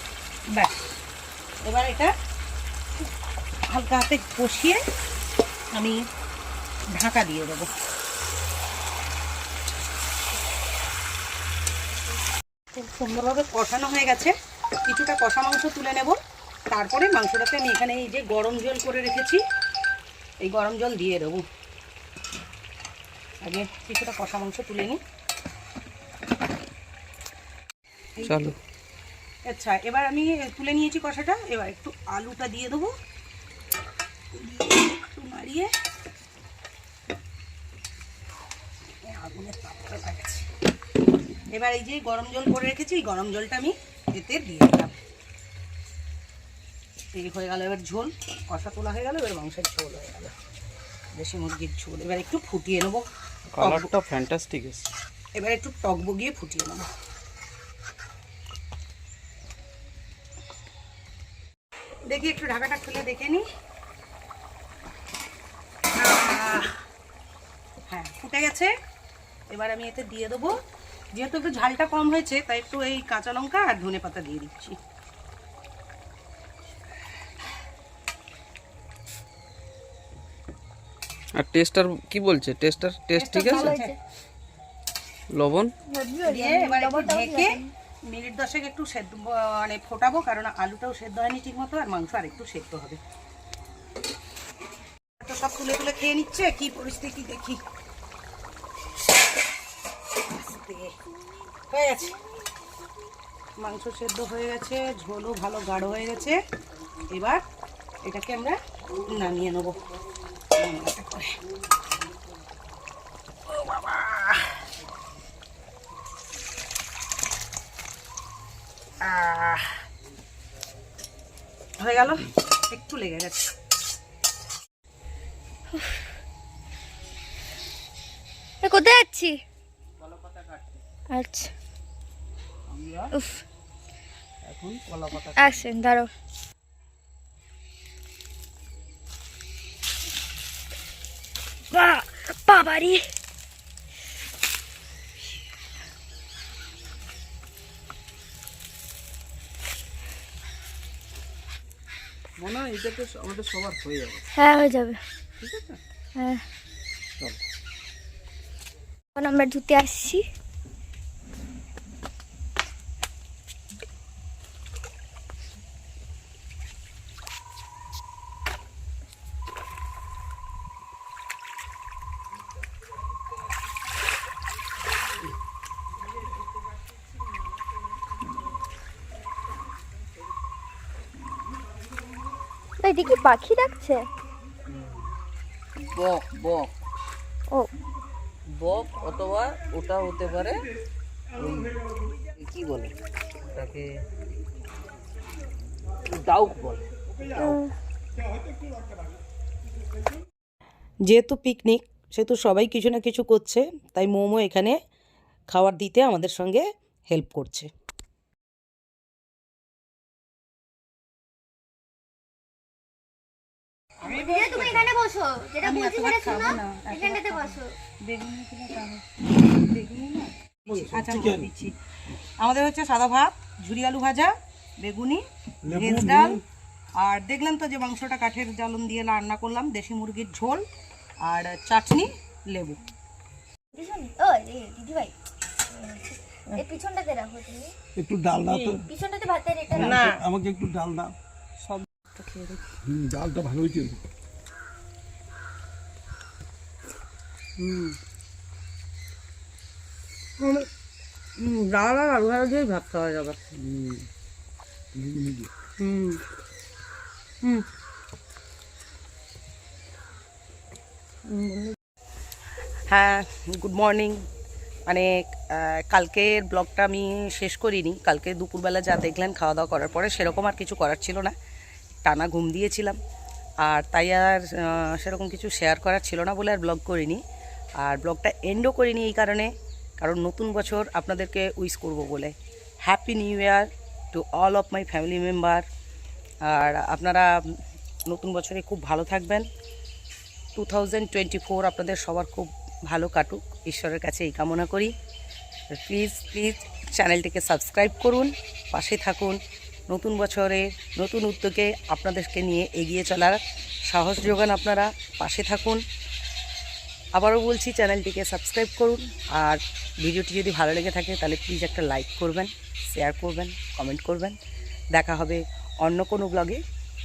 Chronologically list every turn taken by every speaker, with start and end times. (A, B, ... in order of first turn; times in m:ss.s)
0:00.5-0:00.8 A
0:01.6-0:02.1 A
0:03.7-0:04.8 A
0:05.7-0:06.0 A
0:06.9-0:07.7 A
0:12.7-0:14.3 A
0:14.8-0:16.2 A
0:16.7-0:19.4 A
0:20.4-0:21.4 A
0:23.4-0:25.0 A
0:28.2-0:28.5 B
0:29.5-0:32.9 A
0:34.3-0:35.7 A
0:39.0-0:40.5 A
0:41.5-0:45.0 A
0:47.1-0:50.3 A
0:51.1-0:53.0 A
0:53.5-0:54.9 B
0:53.6-0:53.9 A
0:55.4-0:56.9 A
1:02.1-1:03.4 A
1:06.0-1:06.8 A
1:07.9-1:08.7 A
1:09.5-1:10.6 A
1:11.1-1:14.8 A
1:21.4-1:23.8 B
1:23.1-1:23.9 A
1:23.4-1:23.9 C
1:25.3-1:25.7 B
1:25.9-1:27.7 C
1:26.2-1:33.0 A
1:35.2-1:37.6 A
1:40.3-1:40.9 A
1:41.7-1:42.2 A
1:43.6-1:46.4 A
1:47.1-1:47.4 A
1:48.0-1:49.8 A
1:50.5-1:51.4 A
1:53.5-1:54.6 A
1:59.0-1:59.8 A
2:01.8-2:03.4 A
2:05.7-2:06.0 C
2:08.6-2:09.4 C
2:10.0-2:10.7 B
2:11.1-2:11.5 C
2:12.7-2:13.1 B
2:13.1-2:13.4 C
2:14.4-2:15.6 B
2:15.3-2:16.1 C
2:21.7-2:23.0 C
2:32.4-2:34.2 B
2:34.4-2:35.0 C
2:36.2-2:36.4 C
2:39.1-2:40.2 C
3:02.8-3:04.1 C
3:04.7-3:05.0 B
3:05.8-3:06.7 B
3:08.5-3:10.7 B
3:11.4-3:11.8 B
3:12.4-3:12.9 B
3:13.4-3:13.9 B
3:16.1-3:16.8 B
3:17.4-3:17.7 C
3:21.1-3:24.8 A
3:25.5-3:27.7 A
3:34.0-3:34.9 A
3:34.1-3:37.7 C
3:35.6-3:41.8 A
3:42.4-3:46.4 A
3:45.7-3:46.2 D
3:47.0-3:50.6 A
3:51.2-3:52.8 A
3:53.7-3:55.1 C
3:55.7-3:57.7 C
3:58.0-3:58.8 D
3:58.5-4:00.1 C
3:59.7-4:00.2 A
3:59.8-4:01.1 D
4:01.7-4:02.6 A
4:02.9-4:04.0 D
4:07.6-4:08.0 A
4:10.4-4:10.7 A
4:11.4-4:13.6 A
4:13.7-4:14.0 D
4:14.9-4:15.5 D
4:15.8-4:16.2 A
4:21.3-4:21.8 A
4:22.9-4:24.2 A
4:24.9-4:31.3 A
4:32.0-4:33.0 A
4:33.6-4:37.2 A
4:37.8-4:45.6 A
4:46.4-4:47.6 A
4:48.1-4:49.5 A
4:50.5-4:54.9 A
4:55.7-4:59.4 A
4:59.9-5:05.8 A
5:07.1-5:14.4 A
5:14.9-5:16.6 A